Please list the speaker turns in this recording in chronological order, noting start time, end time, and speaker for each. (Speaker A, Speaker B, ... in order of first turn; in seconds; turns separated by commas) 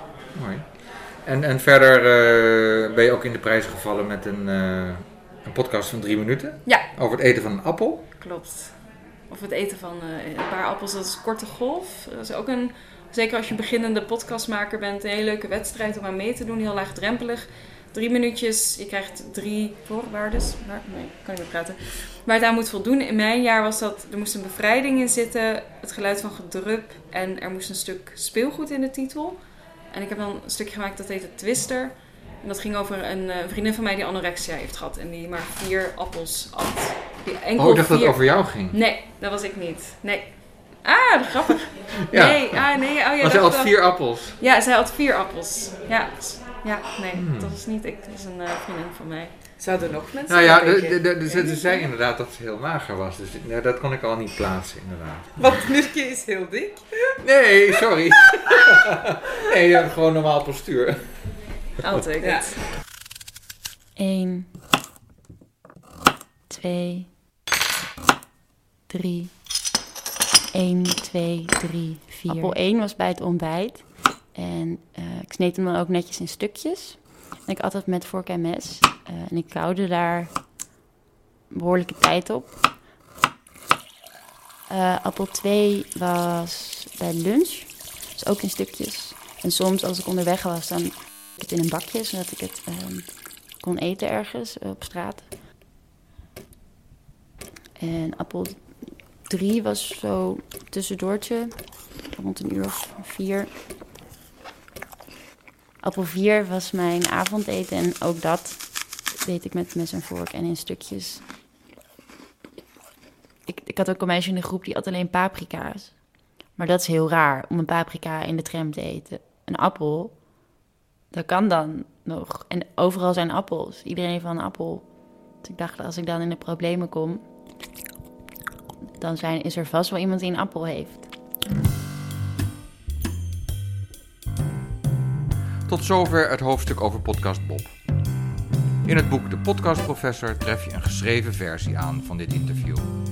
Speaker A: 0.3-8.0, Speaker B: 8.2-8.8, Speaker B: 9.3-29.4, Speaker B: 29.9-49.3, Speaker A: 37.6-38.8, Speaker A: 42.1-42.6, Speaker A: 43.2-44.4, Speaker A: 47.1-47.6, Speaker C: 49.6-51.6, Speaker A: 50.3-55.5, Speaker C: 55.4-56.8, Speaker A: 57.2-61.0, Speaker B: 61.8-62.6, Speaker C: 62.2-62.5, Speaker D: 64.0-64.5, Speaker D: 66.5-67.2, Speaker D: 68.9-69.4, Speaker D: 70.5-80.4, Speaker B: 72.3-72.5, Speaker D: 81.5-82.6, Speaker D: 84.7-95.4, Speaker D: 97.8-103.5, Speaker D: 105.8-111.3, Speaker D: 113.5-120.2, Speaker D: 121.1-127.5, Speaker D: 129.0-131.1, Speaker A: 135.7-137.7, Speaker A: 138.8-142.8